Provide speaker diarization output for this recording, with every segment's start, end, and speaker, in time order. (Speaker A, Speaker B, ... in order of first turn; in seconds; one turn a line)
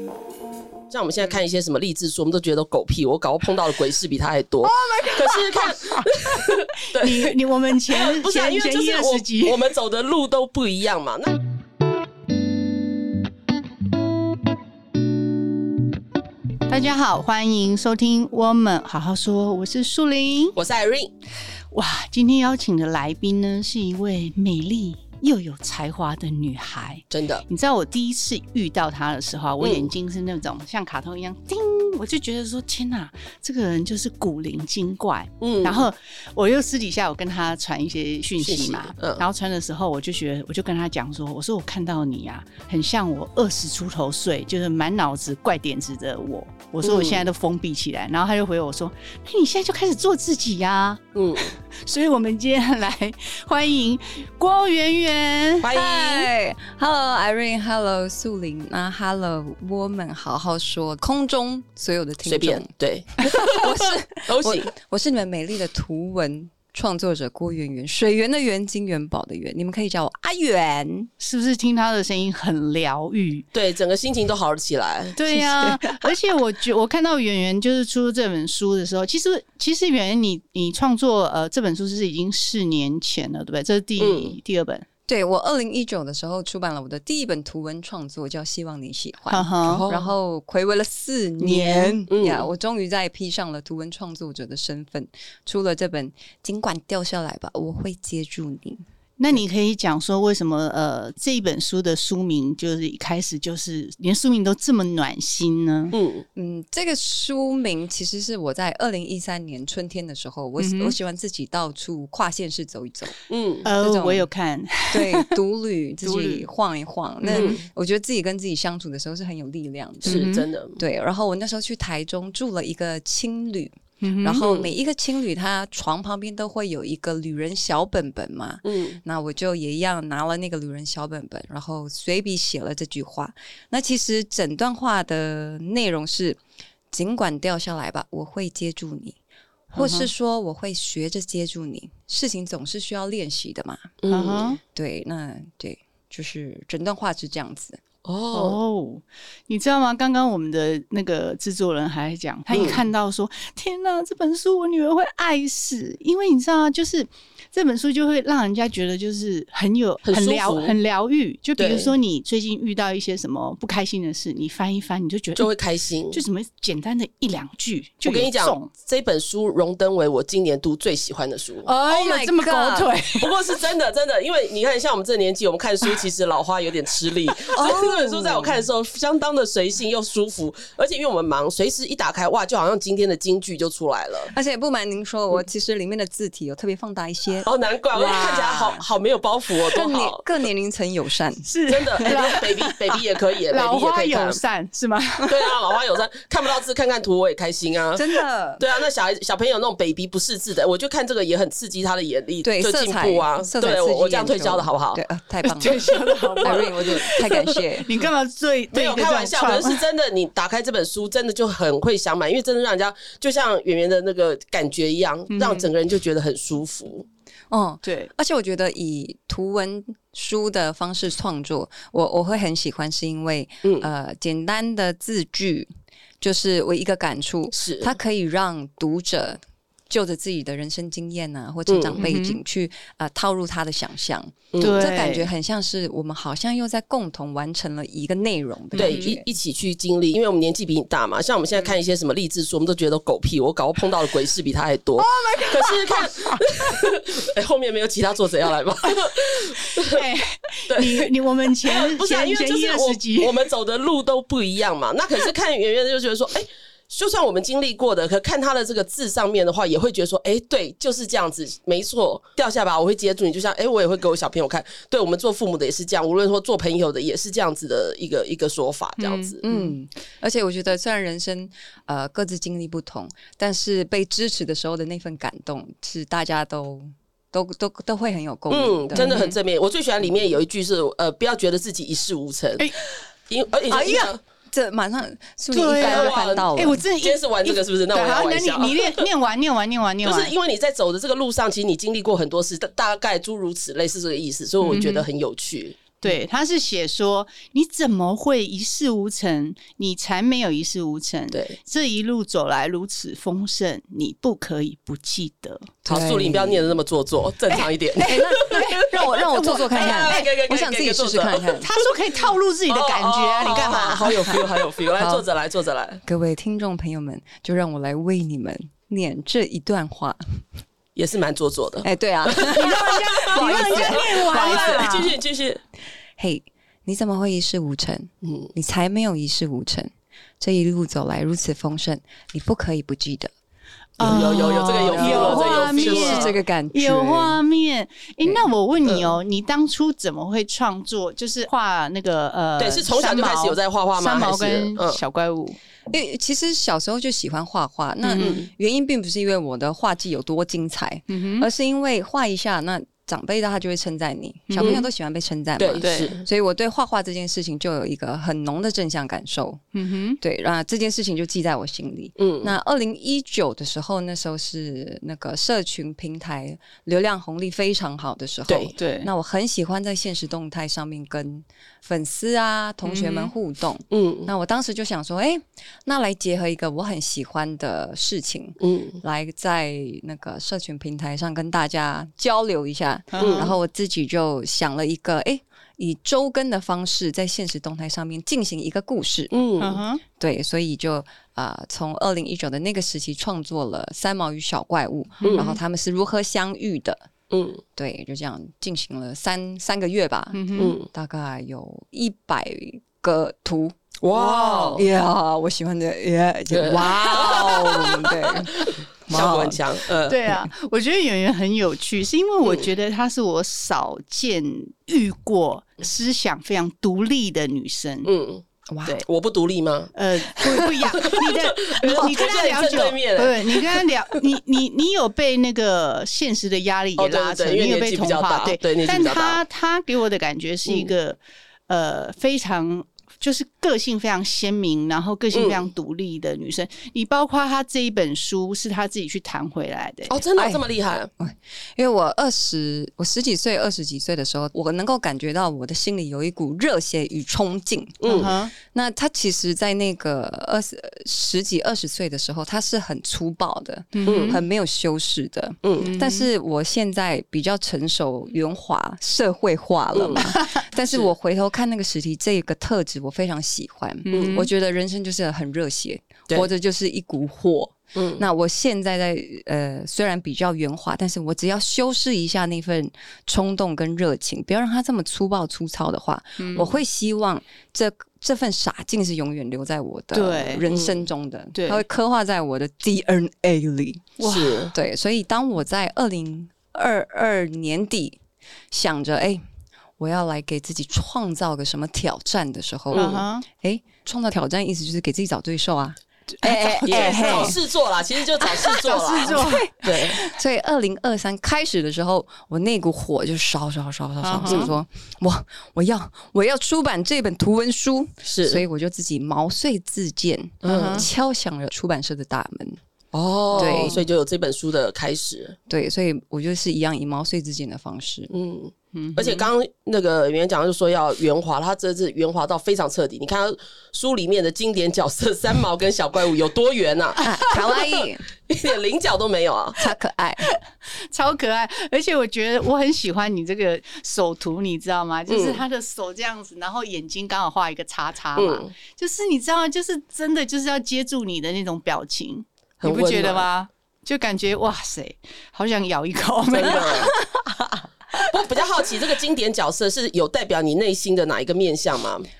Speaker A: 0.9-7.3
Speaker B: 4.6-6.1
Speaker B: 6.9-9.6
Speaker A: 7.9-11.4
Speaker B: 16.7-20.6
Speaker A: 20.6-21.1
Speaker B: 21.7-55.7
Speaker A: 27.1-27.4
Speaker A: 29.6-29.9
Speaker A: 35.4-35.9
Speaker A: 38.4-39.2
Speaker A: 46.8-47.3
Speaker A: 51.1-51.5
Speaker A: 55.6-56.3
Speaker C: 55.7-71.1
Speaker A: 62.2-64.7
Speaker B: 71.2-73.5
Speaker A: 73.5-75.2
Speaker B: 75.2-84.8
Speaker C: 75.3-76.1
Speaker A: 84.0-84.4
Speaker C: 85.1-98.8
Speaker B: 89.3-89.8
Speaker A: 89.6-90.1
Speaker B: 91.4-92.0
Speaker A: 92.1-92.5
Speaker B: 99.2-105.9
Speaker A: 105.9-106.2
Speaker C: 106.3-114.3
Speaker B: 110.6-110.9
Speaker A: 113.3-113.7
Speaker B: 113.6-115.4
Speaker C: 114.9-136.4
Speaker B: 116.0-116.5
Speaker B: 117.2-117.6
Speaker A: 117.3-117.6
Speaker A: 120.0-120.8
Speaker B: 120.0-120.5
Speaker B: 124.0-124.5
Speaker A: 124.4-124.7
Speaker A: 128.6-129.0
Speaker C: 136.9-139.2
Speaker B: 139.7-140.1
Speaker C: 139.7-144.0
Speaker A: 144.0-144.5
Speaker B: 144.1-144.6
Speaker C: 144.7-147.8
Speaker A: 148.0-148.6
Speaker B: 148.3-165.5
Speaker A: 152.5-152.8
Speaker A: 160.0-160.8
Speaker A: 161.6-161.9
Speaker A: 165.4-166.2
Speaker B: 166.1-168.7
Speaker A: 168.0-171.7
Speaker B: 171.6-173.3
Speaker C: 171.9-172.9
Speaker A: 173.2-184.3
Speaker C: 177.5-178.6
Speaker C: 184.3-188.8
Speaker A: 187.4-190.2
Speaker C: 189.7-191.5
Speaker B: 191.4-195.5
Speaker A: 191.7-194.4
Speaker C: 192.0-192.3
Speaker A: 195.3-198.0
Speaker C: 197.9-198.6
Speaker A: 198.6-205.0
Speaker C: 202.4-205.8
Speaker B: 205.4-209.8
Speaker C: 206.4-207.9
Speaker A: 208.7-217.1
Speaker B: 215.3-215.7
Speaker C: 217.5-225.7
Speaker B: 217.8-218.1
Speaker A: 223.6-223.9
Speaker C: 226.2-239.2
Speaker A: 227.5-227.9
Speaker A: 231.7-232.0
Speaker B: 232.0-232.4
Speaker A: 234.5-234.9
Speaker B: 234.6-235.3
Speaker B: 238.7-239.2
Speaker A: 238.8-250.0
Speaker B: 245.0-246.7
Speaker B: 249.5-253.3
Speaker A: 250.7-251.1
Speaker A: 251.6-269.4
Speaker B: 269.0-269.7
Speaker C: 269.4-279.2
Speaker A: 278.5-282.7
Speaker B: 278.9-279.4
Speaker A: 283.3-284.2
Speaker C: 283.7-286.8
Speaker B: 285.5-290.3
Speaker A: 285.7-289.0
Speaker A: 290.0-295.8
Speaker B: 294.6-295.0
Speaker B: 296.0-305.7
Speaker C: 305.8-306.8
Speaker A: 305.9-311.9
Speaker B: 307.5-310.3
Speaker C: 308.0-311.7
Speaker B: 311.6-314.5
Speaker A: 312.7-316.0
Speaker C: 315.0-315.2
Speaker C: 316.0-320.4
Speaker A: 320.9-325.6
Speaker C: 321.8-325.0
Speaker B: 322.4-325.1
Speaker C: 326.2-333.3
Speaker A: 328.2-328.5
Speaker B: 334.0-345.6
Speaker A: 334.0-336.4
Speaker C: 334.8-337.4
Speaker A: 338.8-339.1
Speaker A: 342.6-345.0
Speaker C: 345.9-359.6
Speaker B: 348.0-348.4
Speaker A: 348.2-348.4
Speaker B: 351.1-351.5
Speaker B: 354.5-354.9
Speaker A: 355.6-356.2
Speaker B: 355.8-356.1
Speaker B: 359.7-360.2
Speaker C: 360.2-389.3
Speaker A: 362.2-362.5
Speaker A: 368.5-368.7
Speaker B: 368.8-369.1
Speaker B: 372.8-373.3
Speaker A: 373.9-374.3
Speaker A: 378.6-379.0
Speaker B: 383.1-383.5
Speaker A: 383.2-383.5
Speaker A: 389.3-389.8
Speaker B: 389.6-390.0
Speaker C: 390.2-397.1
Speaker B: 395.2-395.6
Speaker A: 395.2-395.5
Speaker A: 397.3-397.6
Speaker C: 397.8-403.8
Speaker B: 400.3-400.7
Speaker A: 400.6-400.9
Speaker A: 404.0-404.9
Speaker B: 404.1-404.8
Speaker C: 404.8-409.6
Speaker A: 406.5-410.2
Speaker B: 410.1-418.1
Speaker A: 418.0-418.4
Speaker C: 418.7-419.0
Speaker A: 419.1-419.9
Speaker B: 419.9-440.2
Speaker A: 421.1-424.1
Speaker A: 427.0-429.4
Speaker A: 430.6-430.9
Speaker A: 435.3-435.6
Speaker A: 440.1-441.1
Speaker C: 440.4-440.6
Speaker C: 441.2-484.2
Speaker A: 448.0-448.4
Speaker B: 448.1-448.5
Speaker B: 453.9-454.4
Speaker A: 454.0-454.4
Speaker A: 455.6-455.9
Speaker B: 455.8-456.3
Speaker A: 459.9-460.3
Speaker B: 460.1-460.6
Speaker A: 460.8-461.1
Speaker B: 464.1-464.5
Speaker A: 464.1-464.4
Speaker A: 467.9-468.2
Speaker B: 476.4-476.8
Speaker B: 480.1-480.7
Speaker A: 480.7-481.1
Speaker B: 481.5-481.8
Speaker B: 484.2-484.7
Speaker A: 484.2-484.7
Speaker C: 484.7-488.2
Speaker C: 488.7-489.4
Speaker C: 490.0-497.6
Speaker A: 492.9-493.2
Speaker B: 492.9-493.4
Speaker B: 496.4-497.6
Speaker A: 496.9-500.2
Speaker C: 498.4-512.8
Speaker B: 498.6-500.4
Speaker B: 504.2-504.7
Speaker A: 504.4-504.7
Speaker A: 508.2-508.6
Speaker A: 510.6-511.1
Speaker B: 510.6-511.1
Speaker A: 513.1-515.6
Speaker B: 513.5-514.0
Speaker C: 513.5-514.0
Speaker C: 515.7-518.3
Speaker A: 518.3-527.3
Speaker B: 518.9-519.5
Speaker C: 527.2-528.2
Speaker A: 528.5-529.8
Speaker C: 529.8-530.5
Speaker B: 530.4-548.3
Speaker A: 535.3-535.6
Speaker A: 538.4-538.7
Speaker A: 542.8-543.5
Speaker A: 546.5-547.1
Speaker A: 548.3-552.3